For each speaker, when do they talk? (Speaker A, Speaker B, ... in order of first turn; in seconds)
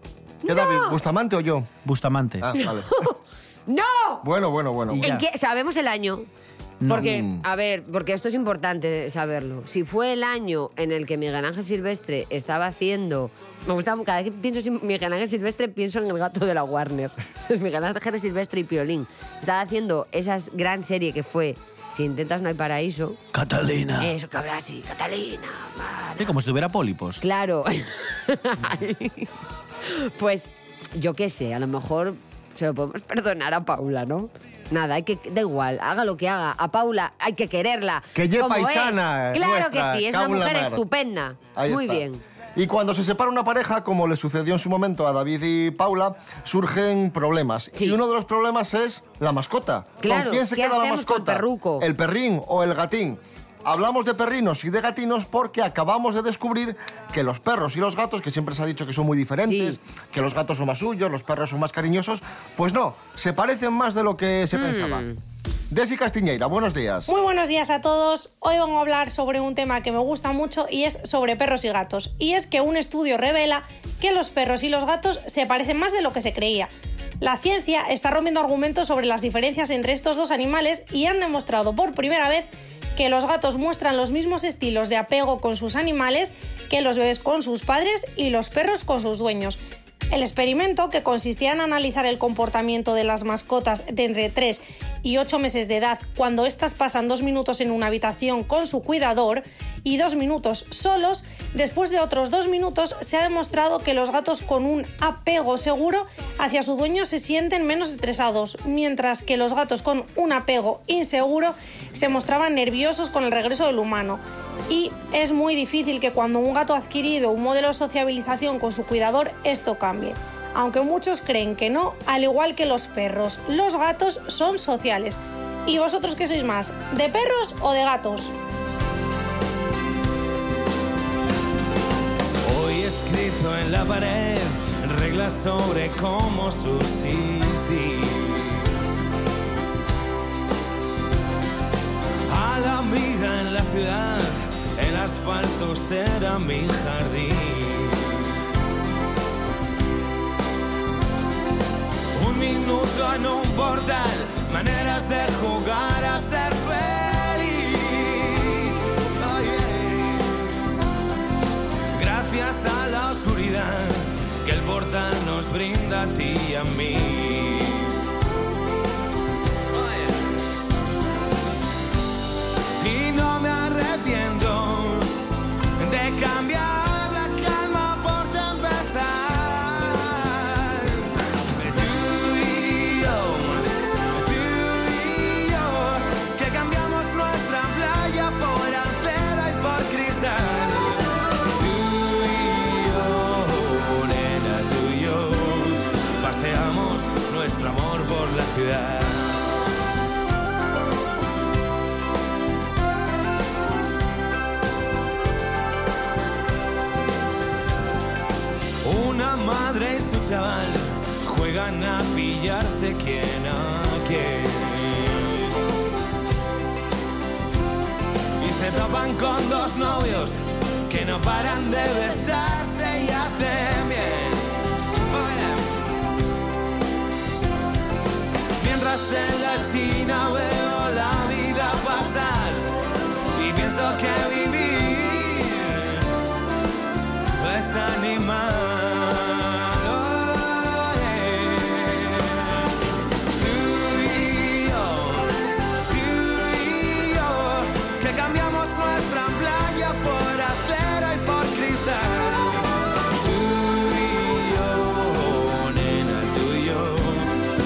Speaker A: 0.4-1.0, 2.5-4.2, 5.0-6.3, 6.9-23.2, 24.0-26.3, 27.2-29.3, 29.8-42.2, 50.0-51.9, 59.5-59.8, 64.5-65.2
Speaker B: 0.4-1.7, 2.4-3.0, 4.2-5.1, 6.9-7.4, 38.1-40.8, 41.5-42.0, 42.5-65.0, 65.7-67.1
Speaker C: 1.8-2.5, 4.9-5.2, 6.8-7.1, 23.3-24.1, 26.2-27.2
Speaker D: 67.1-89.6, 90.1-128.3
Speaker E: 132.4-138.6, 142.3-148.2, 152.2-160.4, 161.9-167.9, 169.7-170.2, 172.8-175.1, 175.8-199.4, 208.8-215.4, 218.4-224.5, 225.1-225.6, 228.6-232.7, 233.3-236.0, 237.4-242.6, 243.3-245.3, 245.9-257.3